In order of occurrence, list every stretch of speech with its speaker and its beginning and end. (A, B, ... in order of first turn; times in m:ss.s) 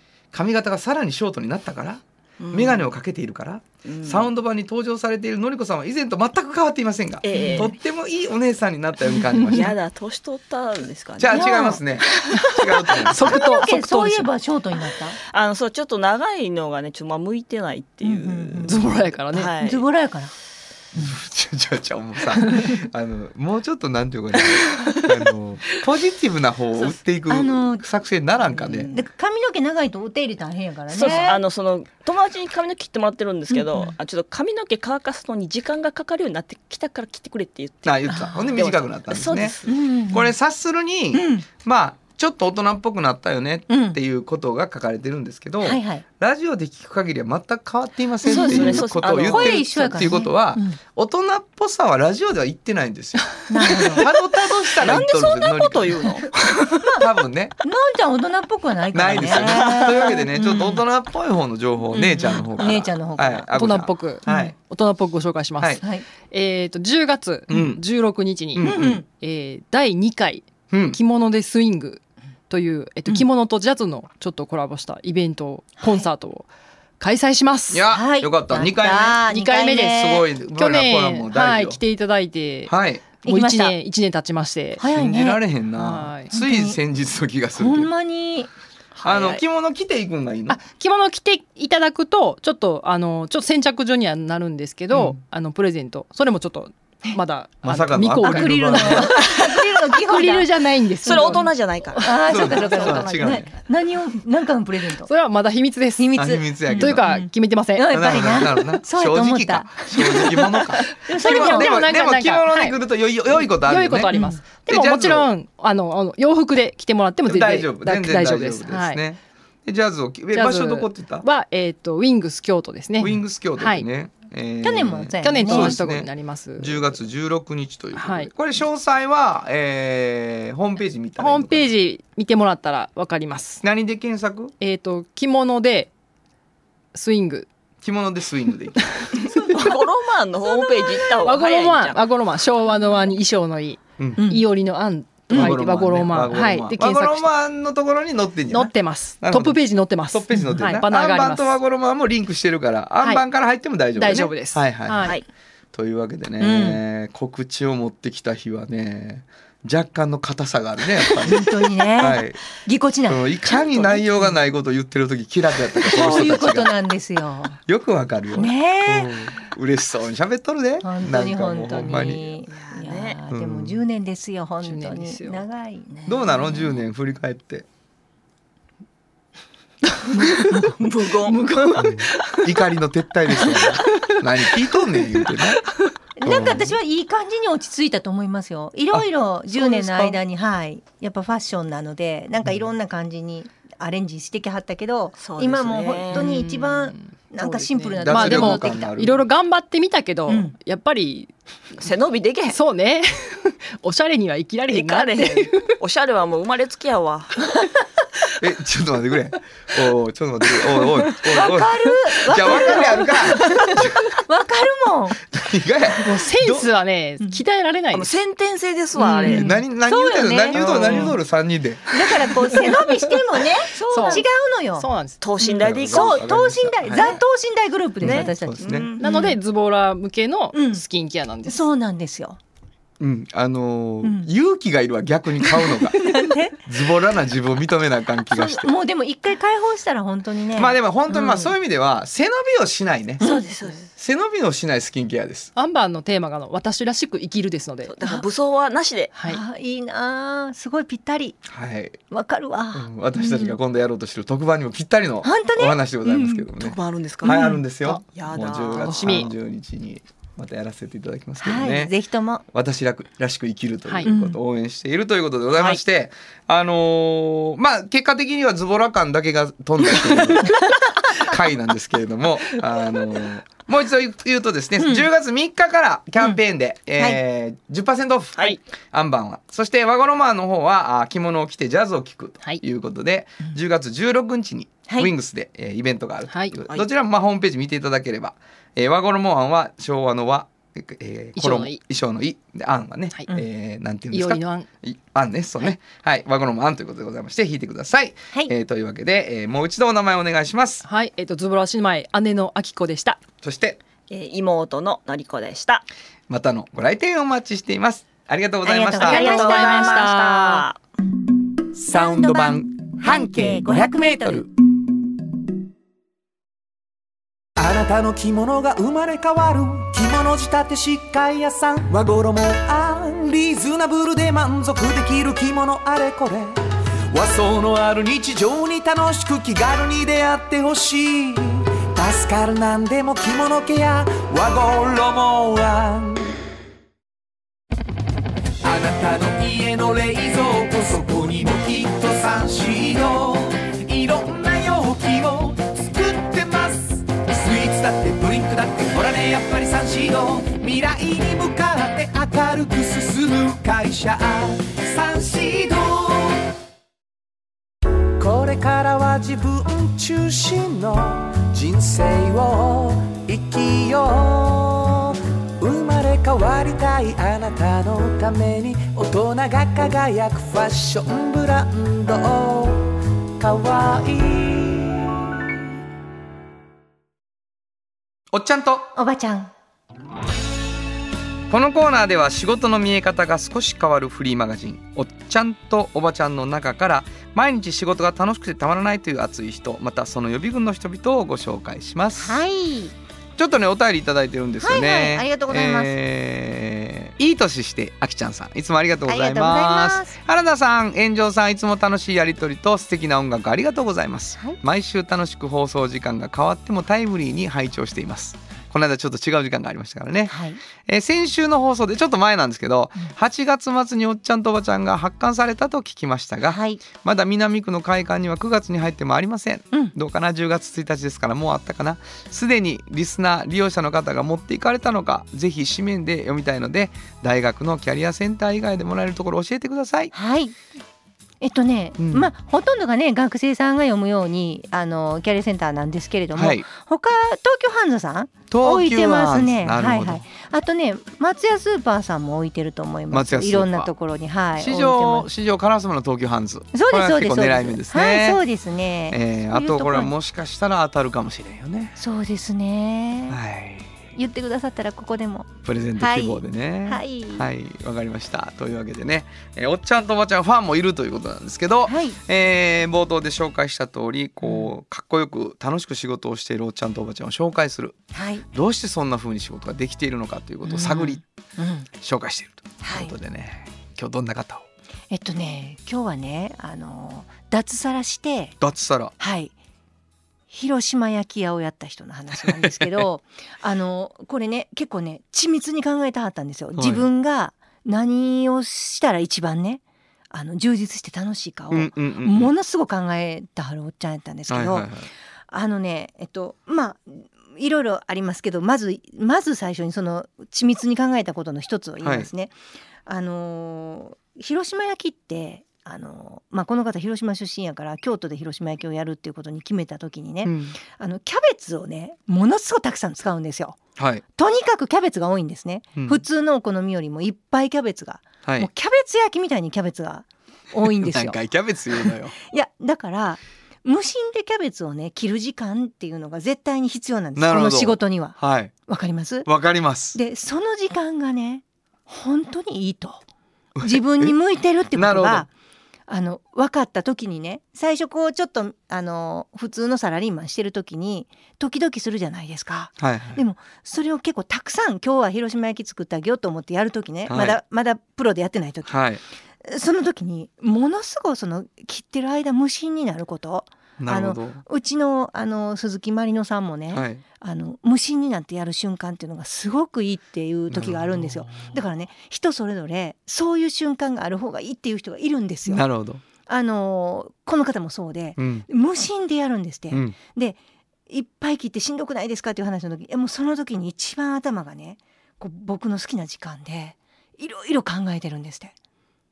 0:00.3-0:09.7 A
0:02.4-0:02.9 B
0:03.8-0:04.3 B
0:07.2-0:07.7 B
0:07.3-0:07.7 C
0:09.5-0:14.3 B
0:11.2-0:13.4 A
0:11.3-0:11.8 C
0:13.1-0:14.0 D
0:13.3-0:15.2 C
0:15.3-0:19.8 B
0:18.0-0:18.8 C
0:18.6-0:19.5 D
0:19.4-0:20.3 C
0:20.9-0:28.9 A
0:27.3-0:27.8 C
0:28.5-0:29.1 B
0:28.9-0:31.4 C
0:30.9-0:39.8 B
0:33.5-0:33.9 C
0:37.8-0:39.6 A
0:38.1-0:38.6 C
0:39.7-0:40.3 C
0:40.1-0:57.6 A
0:41.1-0:41.4 C
0:43.7-0:44.0 C
0:45.6-0:46.0 C
0:48.2-0:49.6 B
0:48.2-0:50.8 C
0:53.5-0:54.0 C
0:54.7-0:56.6 B
0:57.6-1:00.8 C
0:58.9-1:04.5 A
0:59.4-1:00.2 B
1:01.9-1:03.5 C
1:03.5-1:16.5 D
1:04.2-1:04.5 C
1:05.8-1:06.0 C
1:07.5-1:07.8 A
1:08.5-1:09.0 A
1:08.6-1:09.0 C
1:10.7-1:11.0 A
1:15.8-1:16.1 C
1:17.0-1:17.9 D
1:17.7-1:19.2 A
1:17.9-1:20.2 C
1:19.3-1:24.8 D
1:19.9-1:21.8 A
1:22.6-1:23.1 A
1:23.2-1:23.8 C
1:24.8-1:25.4 C
1:24.8-1:27.9 A
1:25.8-1:26.3 D
1:26.3-1:26.8 C
1:27.6-1:28.5 C
1:29.0-1:30.6 A
1:30.5-1:42.2 D
1:34.9-1:35.2 A
1:37.6-1:39.2 A
1:38.2-1:41.4 C
1:41.0-1:43.4 B
1:42.0-1:45.1 C
1:42.2-1:43.5 A
1:45.0-1:48.0 D
1:46.0-1:50.5 C
1:46.2-1:47.1 A
1:47.9-1:55.3 A
1:51.1-1:51.7 C
1:51.1-1:52.8 D
1:53.4-1:59.0 D
1:54.1-1:54.4 C
1:57.2-2:01.2 A
2:00.3-2:03.8 D
2:03.0-2:11.7 A
2:04.6-2:05.8 C
2:05.2-2:07.0 D
2:07.9-2:08.3 D
2:11.2-2:13.6 D
2:13.6-2:14.5 A
2:14.6-2:15.9 D
2:16.9-2:17.5 D
2:17.8-2:19.0 A
2:19.2-2:22.0 B
2:21.0-2:27.3 D
2:24.2-2:24.5 C
2:25.3-2:25.6 C
2:25.3-2:35.2 A
2:28.5-2:31.6 D
2:30.3-2:30.7 C
2:33.9-2:35.2 D
2:35.7-2:42.4 A
2:36.4-2:36.8 C
2:41.3-2:44.3 C
2:43.0-2:46.7 A
2:45.8-2:47.6 C
2:47.7-2:52.3 A
2:48.3-2:49.1 C
2:50.8-2:55.9 C
2:52.5-2:53.2 B
2:53.3-2:53.8 A
2:54.6-2:55.4 D
2:55.9-2:56.7 B
2:56.0-2:57.7 A
3:00.1-3:00.8 C
3:00.3-3:01.9 B
3:01.8-3:05.6 A
3:06.2-3:18.9 C
3:06.2-3:06.8 A
3:08.9-3:10.2 A
3:15.2-3:16.3 B
3:16.1-3:21.3 D
3:18.0-3:19.2 A
3:20.3-3:20.5 C
3:21.8-3:22.6 B
3:22.5-3:25.7 D
3:24.7-3:27.4 B
3:28.4-3:34.0 A
3:31.3-3:35.2 C
3:35.3-3:36.7 A
3:36.0-3:38.1 D
3:37.9-3:39.5 B
3:39.0-3:41.1 C
3:39.3-3:41.8 A
3:40.6-3:41.0 B
3:40.6-3:41.1 D
3:41.9-3:44.9 C
3:43.7-3:44.2 B
3:43.9-3:45.2 D
3:45.2-3:47.1 B
3:45.6-3:47.2 A
3:45.9-3:49.4 C
3:48.0-3:48.9 A
3:48.0-3:49.0 B
3:49.0-3:51.6 D
3:50.5-3:50.8 C
3:51.4-3:52.4 C
3:53.0-3:58.7 A
3:54.0-3:54.3 C
3:55.4-3:56.6 C
3:58.3-4:01.5 C
4:00.5-4:03.2 A
4:03.2-4:03.8 C
4:03.2-4:03.9 B
4:04.0-4:05.5 A
4:05.6-4:07.9 D
4:07.8-4:09.1 B
4:09.1-4:09.4 D
4:09.2-4:11.4 C
4:11.4-4:12.0 A
4:12.1-4:13.6 C
4:12.7-4:21.9 A
4:15.2-4:16.4 C
4:16.6-4:17.4 B
4:17.2-4:17.6 C
4:17.9-4:19.2 B
4:18.8-4:19.3 D
4:21.4-4:22.4 C
4:22.5-4:30.6 A
4:24.0-4:24.4 C
4:31.1-5:00.8 A
4:34.8-4:35.1 C
4:46.3-4:46.6 D
4:51.4-4:51.8 D
4:54.1-4:54.7 D
5:00.8-5:03.2 D
5:03.4-5:03.8 A
5:04.1-5:05.8 B
5:06.3-5:09.4 A
5:08.6-5:10.1 C
5:08.9-5:10.8 B
5:09.1-5:10.6 D
5:11.7-5:14.4 A
5:11.9-5:14.4 C
5:17.6-5:36.3 E
5:38.6-5:56.4 E
5:58.2-6:15.5 E
6:18.3-6:18.9 A
6:18.9-6:19.5 C
6:21.5-6:32.4 A
6:32.2-6:32.9 C
6:33.4-7:10.1 A
6:34.6-6:35.9 C
6:39.1-6:40.2 C
6:50.3-6:50.6 C
6:56.4-6:56.8 C
7:10.1-7:10.6 C
7:11.4-7:25.3 C
7:12.0-7:12.3 A
7:16.3-7:16.7 A
7:18.5-7:20.2 A
7:23.1-7:23.9 A
7:24.6-7:28.4 A
7:26.7-7:30.1 C
7:29.1-7:32.0 A
7:32.0-7:33.4 C
7:33.3-7:34.0 A
7:34.1-7:37.5 C
7:35.6-7:48.0 A
7:41.8-7:42.2 C
7:48.1-7:48.4 C
7:48.5-7:51.2 A
7:50.6-7:51.9 C
7:52.0-7:54.6 A
7:52.8-7:53.1 C
7:55.1-7:58.6 C
7:58.6-7:59.1 A
7:59.2-7:59.5 C
8:00.5-8:14.9 C
8:02.5-8:03.0 A
8:06.8-8:07.1 A
8:11.7-8:12.5 A
8:14.5-8:15.1 A
8:15.5-8:22.5 C
8:22.0-8:22.3 A
8:23.0-8:33.8 C
8:30.4-8:30.8 A
8:34.0-8:34.2 A
8:34.4-8:41.4 C
8:35.9-8:36.2 A
8:38.4-8:38.7 A
8:40.8-8:42.3 A
8:42.0-8:48.4 C
8:47.4-8:48.7 A
8:48.9-8:49.5 C
8:49.4-8:50.2 A
8:50.1-8:53.2 C
8:53.8-8:54.3 A
8:53.8-8:55.5 C
8:54.9-8:55.5 A
8:56.1-9:09.0 C
9:03.0-9:03.4 A
9:07.3-9:07.6 A
9:08.8-9:09.2 A
9:09.6-9:25.8 C
9:14.0-9:14.6 A
9:16.9-9:17.2 A
9:20.7-9:21.7 A
9:25.6-9:26.2 A
9:26.5-9:30.6 C
9:28.4-9:28.6 A
9:29.9-9:30.2 A
9:31.1-9:38.7 C